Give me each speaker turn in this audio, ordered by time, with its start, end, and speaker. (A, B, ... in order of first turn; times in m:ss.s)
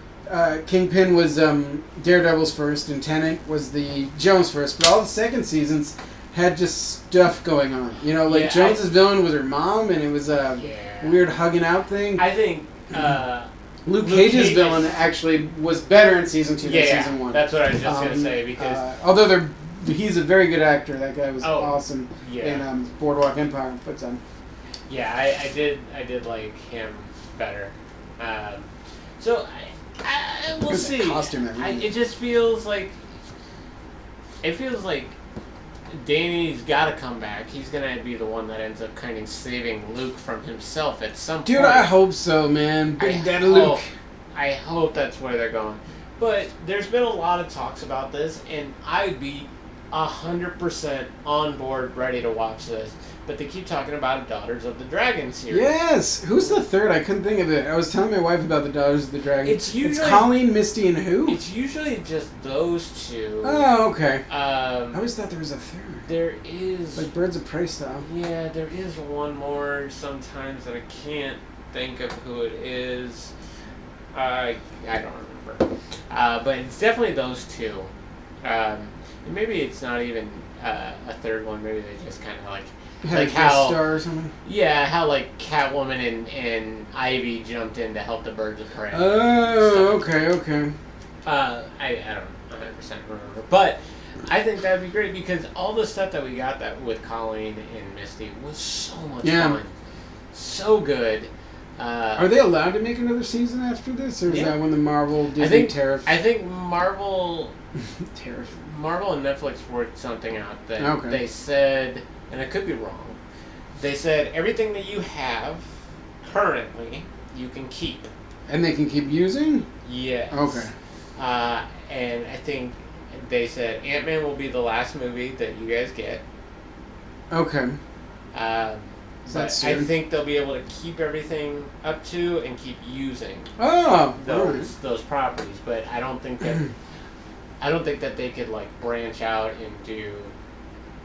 0:00.3-0:12.2 A
0:08.2-0:08.8 B
0:10.6-0:11.2 B
0:12.2-0:15.0 B
0:13.9-0:24.2 A
0:16.6-0:18.8 B
0:21.4-0:22.6 B
0:24.9-0:33.0 B
0:30.7-0:31.9 A
0:34.4-0:35.2 B
0:35.9-0:41.9 B
0:41.5-0:43.9 A
0:43.0-0:43.8 B
0:44.3-0:55.7 B
0:55.5-1:01.4 A
0:56.4-0:56.6 B
0:59.4-1:00.3 B
1:01.3-1:03.7 B
1:03.4-1:04.2 A
1:04.3-1:05.0 B
1:04.9-1:06.1 A
1:06.1-1:07.1 B
1:07.0-1:08.0 A
1:08.0-1:13.3 B
1:14.1-1:17.9 B
1:18.4-1:23.8 B
1:23.0-1:24.3 A
1:24.4-1:30.0 B
1:28.9-1:30.8 A
1:31.2-1:39.7 B
1:39.2-1:39.6 A
1:40.3-1:42.3 B
1:42.2-1:46.1 A
1:44.3-1:44.5 B
1:45.4-1:47.5 B
1:48.1-1:48.6 A
1:48.7-1:53.2 B
1:50.8-1:51.2 A
1:53.8-1:55.7 B
1:56.2-1:58.1 B
1:58.5-1:59.7 A
1:59.8-2:00.6 B
2:00.3-2:00.7 A
2:01.2-2:06.2 B
2:07.3-2:07.8 A
2:08.3-2:13.5 B
2:09.3-2:09.9 A
2:13.6-2:14.7 A
2:14.1-2:16.7 B
2:17.6-2:20.3 B